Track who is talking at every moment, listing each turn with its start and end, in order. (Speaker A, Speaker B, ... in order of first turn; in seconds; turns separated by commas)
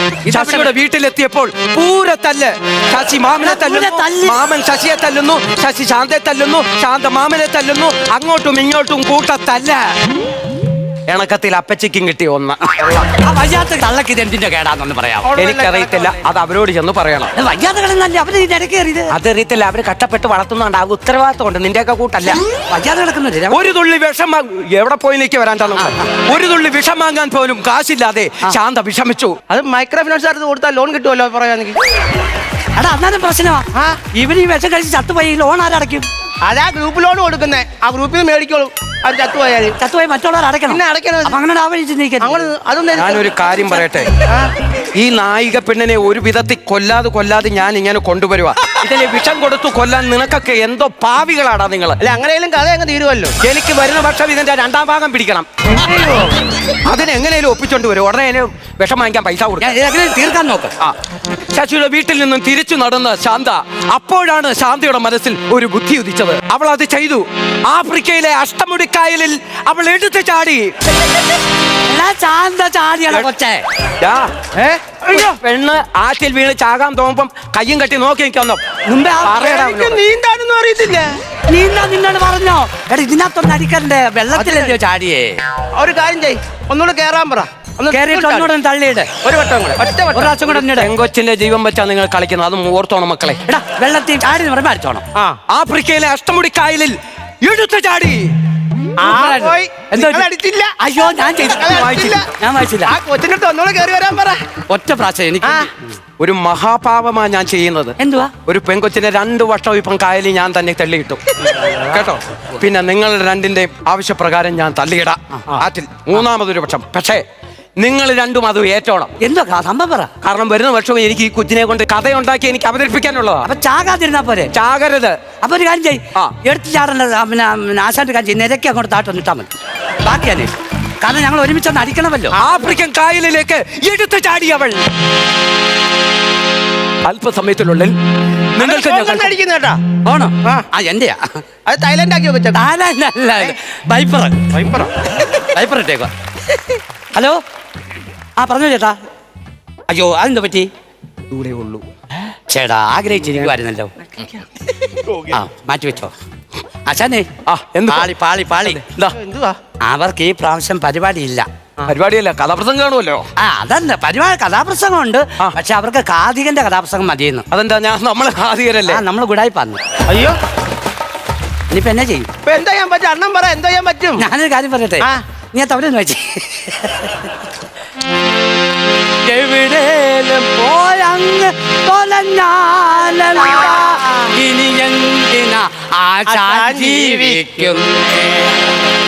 Speaker A: 0.2-0.7, Speaker B: 0.3-9.8, Speaker A: 3.4-4.4, Speaker B: 11.1-13.1, Speaker A: 13.2-15.3, Speaker C: 15.2-16.2, Speaker B: 15.4-17.3, Speaker A: 17.4-19.1, Speaker B: 19.1-22.4, Speaker A: 22.7-23.6, Speaker B: 23.5-29.4, Speaker A: 25.8-26.0, Speaker C: 29.5-31.8, Speaker A: 32.8-36.1, Speaker C: 33.7-34.0, Speaker C: 36.4-39.7, Speaker A: 39.8-42.5, Speaker C: 40.7-41.4, Speaker C: 42.2-43.6, Speaker B: 42.9-44.1, Speaker B: 45.0-52.0, Speaker C: 52.0-53.3, Speaker B: 53.4-55.5, Speaker A: 55.8-56.3, Speaker B: 56.8-59.7, Speaker A: 59.6-60.7, Speaker B: 61.5-70.7, Speaker A: 71.9-73.6, Speaker B: 74.0-74.3, Speaker C: 74.5-75.3, Speaker B: 75.1-78.6, Speaker A: 78.8-79.5, Speaker B: 79.2-80.0, Speaker C: 79.2-81.1, Speaker A: 81.5-85.4, Speaker C: 84.3-84.7, Speaker C: 85.8-88.5, Speaker A: 87.9-89.1, Speaker C: 89.2-90.5, Speaker A: 90.1-90.9, Speaker B: 90.5-93.4, Speaker A: 93.5-95.0, Speaker B: 95.5-98.3, Speaker C: 99.0-100.8, Speaker A: 99.0-102.9, Speaker C: 101.4-102.3, Speaker B: 101.7-102.2, Speaker C: 102.8-104.4, Speaker A: 104.7-105.9, Speaker C: 105.4-105.7, Speaker B: 106.2-111.2, Speaker A: 108.0-108.3, Speaker A: 111.6-112.0, Speaker B: 111.8-117.2, Speaker B: 117.8-119.1, Speaker A: 119.2-120.1, Speaker B: 120.2-123.5, Speaker A: 123.4-124.5, Speaker B: 124.5-125.2, Speaker A: 125.4-129.5, Speaker A: 130.0-130.5, Speaker A: 131.0-132.4, Speaker C: 132.3-132.6, Speaker B: 132.4-134.8, Speaker B: 137.0-137.9, Speaker B: 138.5-139.3, Speaker C: 138.6-139.8, Speaker A: 140.0-141.4, Speaker C: 141.7-142.6, Speaker A: 142.5-144.4, Speaker C: 144.5-144.9, Speaker A: 145.3-146.1, Speaker A: 147.1-147.4, Speaker A: 148.4-149.0, Speaker A: 149.9-150.7, Speaker B: 151.3-151.8, Speaker A: 152.5-153.9, Speaker A: 155.3-156.1, Speaker A: 156.9-157.3, Speaker B: 157.4-159.2, Speaker A: 157.9-158.8, Speaker C: 159.1-159.6, Speaker A: 159.8-161.5, Speaker B: 161.9-163.2, Speaker A: 163.4-167.4, Speaker B: 167.5-169.0, Speaker A: 168.9-169.8, Speaker C: 170.1-170.4, Speaker A: 171.7-172.3, Speaker C: 172.4-174.2, Speaker A: 174.2-177.3, Speaker A: 179.2-188.6, Speaker C: 183.3-184.3, Speaker C: 186.3-187.5